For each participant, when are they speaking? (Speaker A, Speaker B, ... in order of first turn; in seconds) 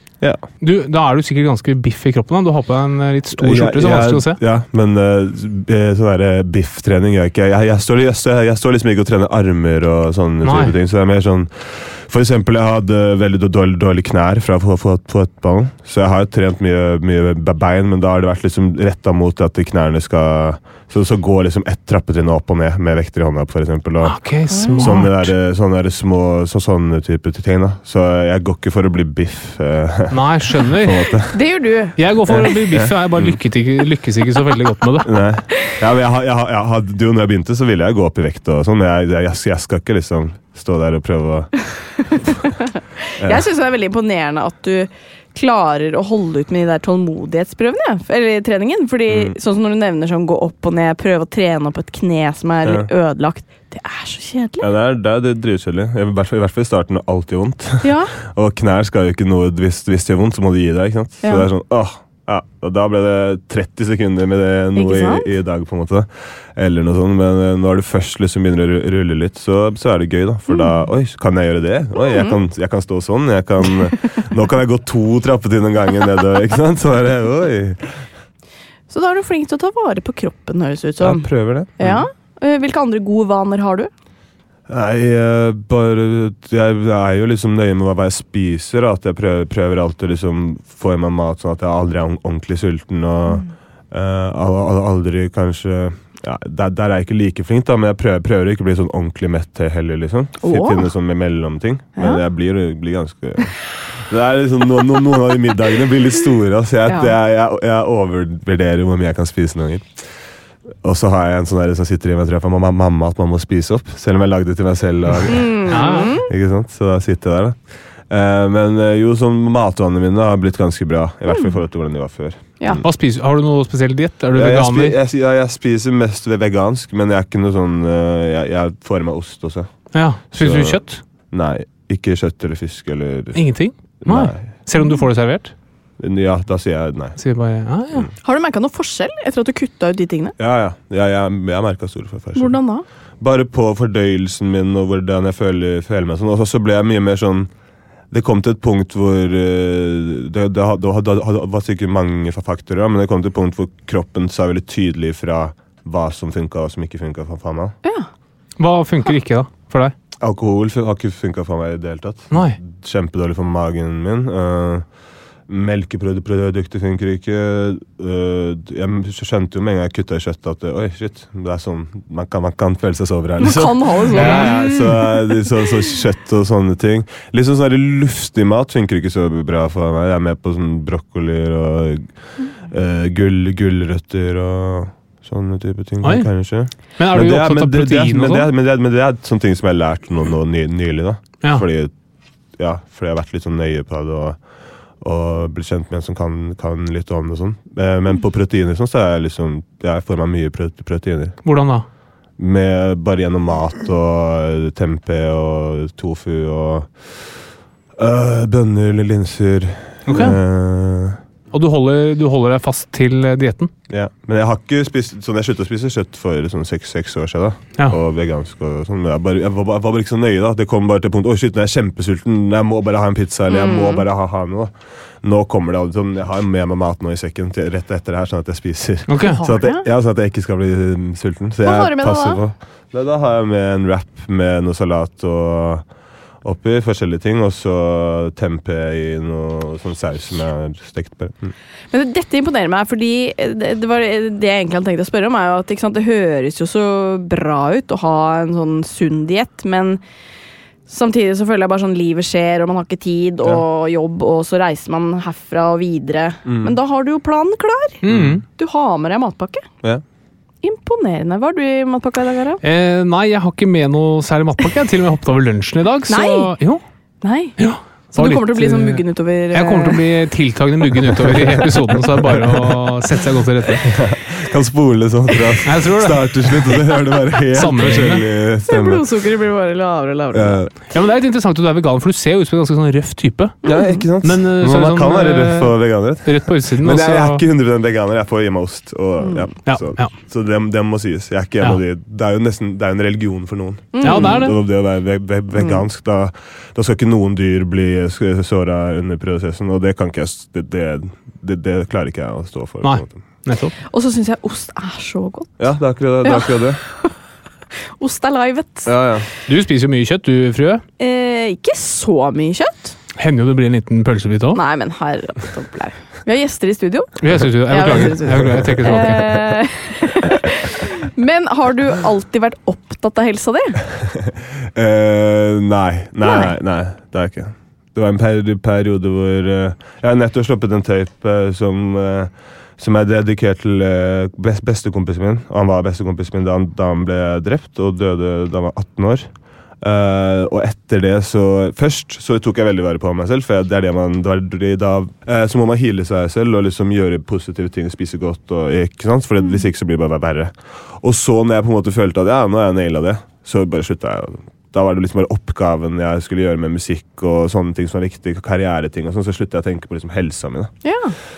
Speaker A: 0.5-4.4, 10.4-10.8, 24.0-25.3, 30.1-31.1, 32.0-35.1, 115.7-116.1, 122.8-125.0, 129.9-131.0, 133.3-135.5, 137.2-138.1, 158.6-159.9, 162.3-162.6, 174.1-174.6, 186.0-188.5, 201.4-201.8, 210.1-210.4, 211.5-213.7, 229.1-229.4, 258.0-258.4, 262.6-266.8, 267.6-274.0, 275.6-276.8, 277.5-278.3, 280.9-283.6, 284.2-287.4, 289.6-290.1, 294.0-294.6, 302.8-303.7, 309.4-310.8, 313.2-314.6, 317.2-319.3
Speaker B: 3.4-31.4, 32.3-33.4, 35.0-42.1, 43.2-43.5, 49.1-49.4, 54.6-78.0, 81.0-82.1, 84.7-110.1, 110.8-122.8, 124.3-134.5, 136.0-137.2, 140.4-142.6, 143.2-147.5, 148.1-157.7, 160.2-164.9, 165.5-191.9, 192.5-201.4, 202.4-207.4, 208.0-211.2, 213.9-241.5, 256.4-256.8, 258.1-258.4, 272.4-272.8, 273.8-279.0, 280.3-280.7, 283.6-303.2, 305.6-306.8, 308.9-309.3, 317.9-318.9, 324.7-360.8
Speaker C: 24.5-24.9, 31.3-32.6, 42.2-54.7, 57.8-58.1, 61.2-61.5, 64.7-65.3, 70.5-70.7, 72.0-72.3, 78.9-83.9, 100.4-100.9, 102.0-102.2, 106.9-107.1, 115.3-116.3, 134.8-135.0, 138.2-140.3, 142.3-142.8, 157.8-158.1, 173.4-175.0, 223.5-224.0, 229.2-229.8, 231.6-232.4, 241.9-250.0, 250.9-259.7, 260.6-262.6, 266.1-266.5, 267.2-270.0, 278.7-280.6, 283.6-284.0, 289.2-289.5, 293.9-294.4, 295.5-295.8, 303.9-305.6, 306.2-307.1, 308.0-308.9, 311.0-312.9, 314.5-323.8, 326.2-326.5, 360.8-361.1